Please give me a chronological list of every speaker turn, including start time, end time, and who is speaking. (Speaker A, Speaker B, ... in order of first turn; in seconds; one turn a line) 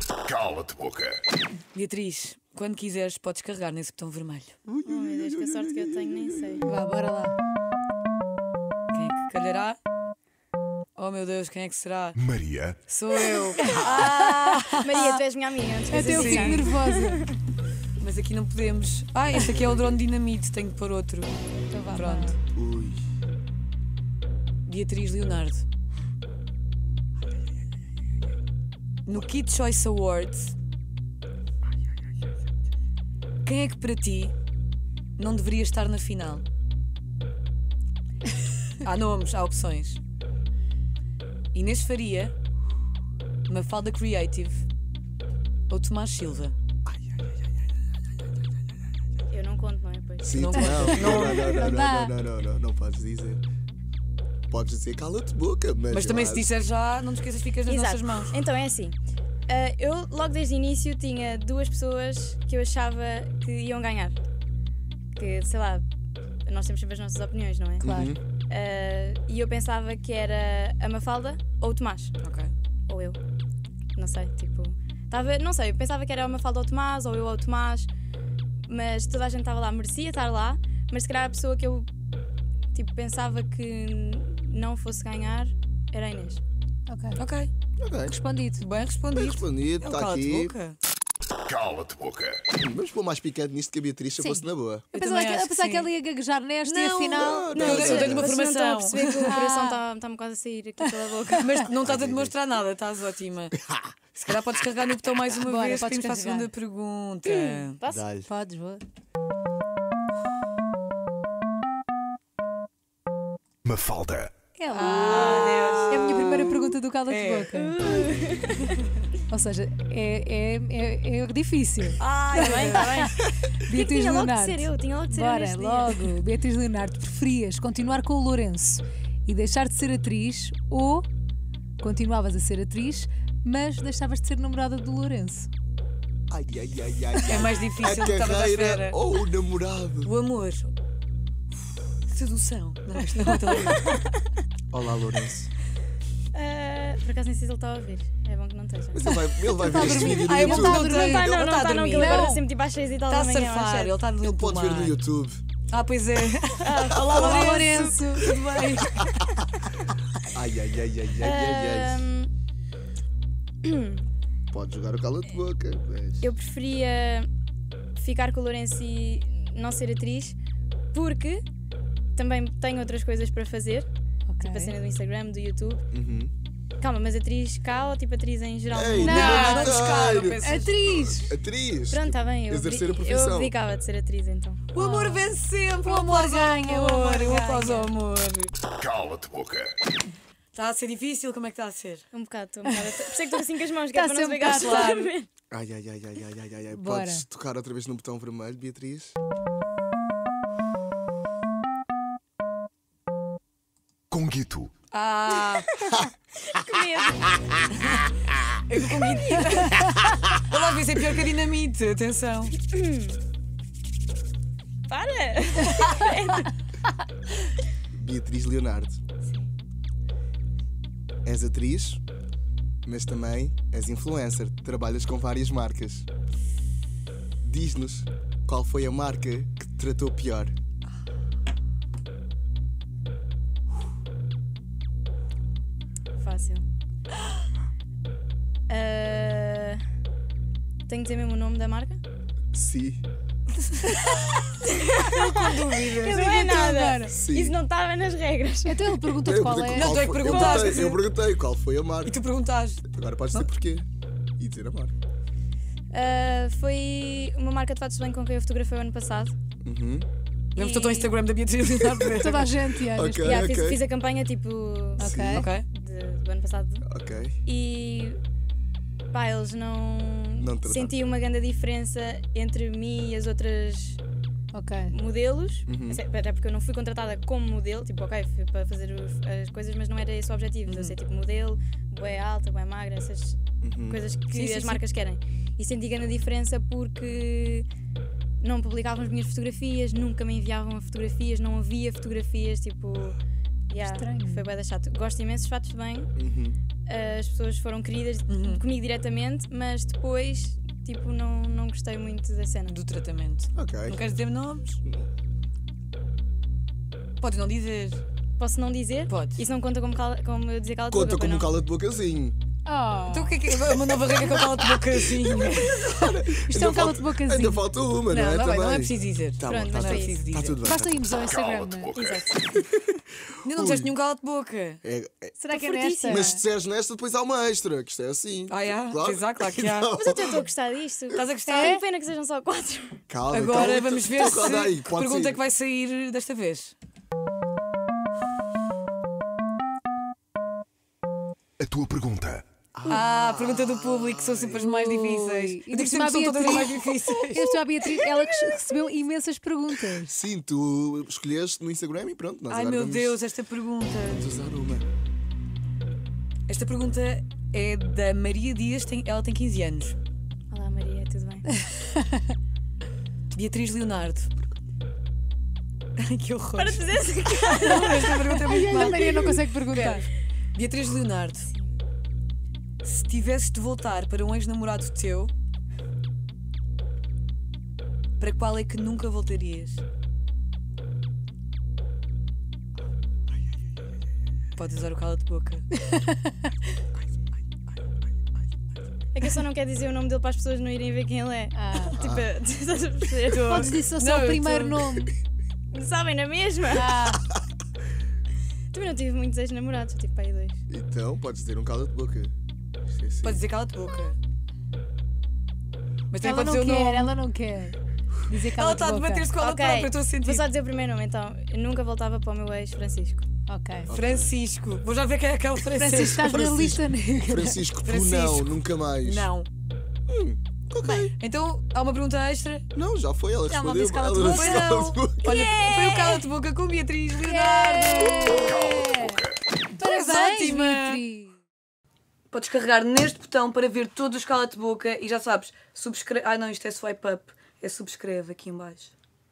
Speaker A: 0.2-1.2
Speaker B: 1.7-4.5
Speaker C: 4.7-6.6
Speaker D: 4.8-6.6
Speaker E: 6.6-7.3
Speaker B: 8.9-9.8
Speaker B: 10.9-12.2
Speaker A: 12.2-12.8
Speaker B: 12.8-15.1
Speaker E: 13.6-14.6
Speaker D: 14.8-17.3
Speaker E: 15.9-17.2
Speaker B: 16.0-16.7
Speaker B: 18.0-21.3
Speaker C: 19.3-20.0
Speaker E: 21.7-22.4
Speaker B: 21.9-22.4
Speaker C: 22.5-23.1
Speaker B: 24.6-25.6
Speaker B: 29.0-30.5
Speaker B: 33.4-34.3
Speaker B: 35.2-36.4
Speaker B: 38.8-40.0
Speaker B: 41.5-42.3
Speaker B: 43.5-44.6
Speaker B: 45.7-46.5
Speaker D: 49.3-50.4
Speaker C: 50.2-53.4
Speaker B: 50.3-51.5
Speaker E: 50.8-52.1
Speaker C: 54.5-56.5
Speaker B: 55.9-58.3
Speaker D: 57.6-59.0
Speaker D: 59.5-64.2
Speaker D: 65.2-65.8
Speaker D: 66.5-67.9
Speaker E: 67.8-68.1
Speaker C: 67.8-68.2
Speaker D: 68.5-72.2
Speaker B: 72.2-72.5
Speaker D: 72.9-73.2
Speaker D: 74.0-77.9
Speaker D: 78.7-81.9
Speaker D: 82.7-86.4
Speaker E: 86.9-87.2
Speaker B: 87.2-87.5
Speaker C: 87.8-88.2
Speaker E: 88.0-88.7
Speaker B: 88.6-90.8
Speaker C: 89.1-90.5
Speaker A: 91.5-92.5
Speaker C: 92.5-94.9
Speaker E: 94.2-97.5
Speaker B: 94.9-95.9
Speaker B: 96.6-99.4
Speaker C: 97.1-98.3
Speaker D: 97.5-101.5
Speaker E: 99.2-99.8
Speaker E: 100.8-101.7
Speaker B: 101.4-103.6
Speaker C: 101.7-102.3
Speaker C: 103.6-103.9
Speaker B: 104.2-107.8
Speaker E: 105.4-106.5
Speaker D: 107.2-108.1
Speaker C: 107.9-108.3
Speaker E: 108.2-108.8
Speaker A: 113.6-114.3
Speaker E: 114.5-117.8
Speaker B: 114.7-117.5
Speaker D: 115.0-116.5
Speaker D: 117.5-118.7
Speaker E: 119.3-131.1
Speaker D: 122.0-126.2
Speaker B: 122.3-123.1
Speaker E: 131.8-135.5
Speaker C: 136.3-140.1
Speaker B: 137.2-139.0
Speaker B: 140.0-140.7
Speaker B: 142.1-144.0
Speaker D: 143.6-144.1
Speaker C: 144.7-145.5
Speaker D: 146.3-149.2
Speaker C: 148.9-151.0
Speaker E: 149.6-151.2
Speaker B: 149.8-152.2
Speaker D: 150.8-154.0
Speaker E: 151.9-152.4
Speaker B: 153.1-155.0
Speaker C: 154.2-155.4
Speaker B: 155.7-159.0
Speaker D: 156.6-157.8
Speaker C: 156.9-157.5
Speaker E: 157.2-158.4
Speaker C: 159.0-159.3
Speaker C: 160.3-162.1
Speaker D: 161.2-162.3
Speaker D: 163.6-164.1
Speaker C: 164.5-166.2
Speaker D: 166.2-167.3
Speaker D: 168.0-170.3
Speaker D: 170.9-171.4
Speaker D: 172.2-173.9
Speaker E: 174.3-174.8
Speaker D: 174.4-175.9
Speaker C: 175.9-176.3
Speaker D: 176.8-179.4
Speaker C: 178.7-180.4
Speaker E: 179.0-179.8
Speaker B: 179.0-181.1
Speaker E: 180.4-181.3
Speaker C: 181.2-183.5
Speaker D: 181.9-184.7
Speaker B: 184.7-188.5
Speaker E: 184.7-187.9
Speaker A: 188.8-189.8
Speaker B: 190.5-192.1
Speaker D: 192.1-195.3
Speaker E: 192.6-193.4
Speaker E: 193.9-195.1
Speaker B: 194.4-195.1
Speaker C: 195.5-199.1
Speaker E: 196.7-197.2
Speaker A: 204.1-204.7
Speaker B: 204.9-205.7
Speaker D: 206.5-207.6
Speaker B: 208.7-212.6
Speaker D: 209.0-209.8
Speaker D: 212.7-213.2
Speaker D: 214.9-216.5
Speaker C: 217.9-219.0
Speaker D: 219.2-219.5
Speaker C: 221.2-222.0
Speaker C: 222.8-226.1
Speaker C: 227.4-230.5
Speaker D: 236.2-236.6
Speaker D: 238.7-239.8
Speaker D: 240.9-242.0
Speaker C: 242.5-243.0
Speaker B: 243.6-246.3
Speaker D: 244.7-249.1
Speaker E: 246.1-247.1
Speaker C: 247.1-247.5
Speaker E: 248.7-250.3
Speaker C: 249.2-252.2
Speaker B: 249.7-251.0
Speaker D: 250.2-250.9
Speaker B: 252.0-253.5
Speaker C: 252.8-253.9
Speaker C: 254.4-254.9
Speaker D: 255.9-259.3
Speaker C: 259.6-260.1
Speaker B: 260.5-262.6
Speaker D: 260.6-261.1
Speaker C: 261.7-262.1
Speaker E: 262.1-263.6
Speaker C: 262.9-263.8
Speaker D: 263.2-266.9
Speaker E: 265.0-265.5
Speaker C: 265.0-265.4
Speaker B: 265.3-265.6
Speaker C: 266.8-267.4
Speaker D: 267.4-268.2
Speaker D: 269.1-274.0
Speaker C: 270.4-270.9
Speaker E: 274.5-274.9
Speaker D: 274.9-287.6
Speaker C: 275.7-276.0
Speaker B: 280.6-280.9
Speaker C: 283.6-284.0
Speaker B: 284.3-284.8
Speaker D: 288.4-293.2
Speaker D: 293.7-296.1
Speaker E: 293.8-294.5
Speaker C: 296.1-296.6
Speaker D: 296.9-302.7
Speaker B: 298.3-298.6
Speaker B: 302.7-304.8
Speaker C: 303.5-304.0
Speaker B: 307.2-308.0
Speaker D: 308.4-311.5
Speaker B: 309.1-309.4
Speaker C: 310.9-312.4
Speaker E: 312.6-313.4
Speaker B: 313.1-316.1
Speaker C: 314.1-321.0
Speaker E: 316.4-317.6
Speaker B: 318.1-320.7
Speaker D: 319.4-320.2
Speaker E: 320.6-321.9
Speaker A: 321.1-322.2
Speaker D: 321.9-322.7
Speaker B: 323.4-324.8
Speaker C: 323.5-323.9
Speaker C: 324.8-325.3
Speaker E: 325.4-326.4
Speaker D: 325.5-326.3
Speaker C: 326.0-330.4
Speaker B: 328.5-329.9
Speaker D: 329.9-333.1
Speaker B: 331.1-331.8
Speaker E: 331.5-331.8
Speaker C: 333.1-335.4
Speaker B: 333.3-336.8
Speaker A: 341.6-342.4
Speaker C: 342.8-344.6
Speaker B: 342.9-347.6
Speaker E: 344.6-350.1
Speaker C: 350.0-353.2
Speaker B: 352.5-354.3
Speaker C: 354.1-354.8
Speaker B: 356.5-360.0
Speaker D: 360.5-361.5
Speaker B: 363.3-364.3
Speaker B: 366.0-371.5
Speaker D: 366.5-369.4
Speaker E: 368.3-370.1
Speaker D: 371.4-371.7
Speaker B: 372.8-375.3
Speaker B: 378.2-379.8
Speaker B: 384.6-385.7
Speaker E: 385.9-386.4
Speaker D: 389.1-393.8
Speaker E: 391.5-392.0
Speaker C: 391.9-392.3
Speaker B: 393.3-394.9
Speaker E: 393.5-395.1
Speaker D: 395.7-397.0
Speaker E: 396.7-397.3
Speaker D: 398.7-400.6
Speaker C: 400.7-402.3
Speaker C: 402.9-403.4
Speaker B: 403.2-404.2
Speaker B: 406.1-407.1
Speaker E: 406.2-409.3
Speaker B: 408.5-410.4
Speaker D: 409.4-413.2
Speaker E: 413.5-413.9
Speaker C: 413.9-414.3
Speaker B: 413.9-416.3
Speaker E: 415.7-417.6
Speaker C: 416.2-419.3
Speaker B: 417.8-419.5
Speaker C: 420.1-421.1
Speaker B: 421.0-422.7
Speaker C: 422.7-425.4
Speaker B: 423.5-428.7
Speaker E: 424.3-424.6
Speaker D: 425.2-426.2
Speaker E: 427.2-429.2
Speaker A: 428.4-429.3
Speaker B: 429.8-431.0
Speaker E: 429.8-431.4
Speaker B: 432.3-438.9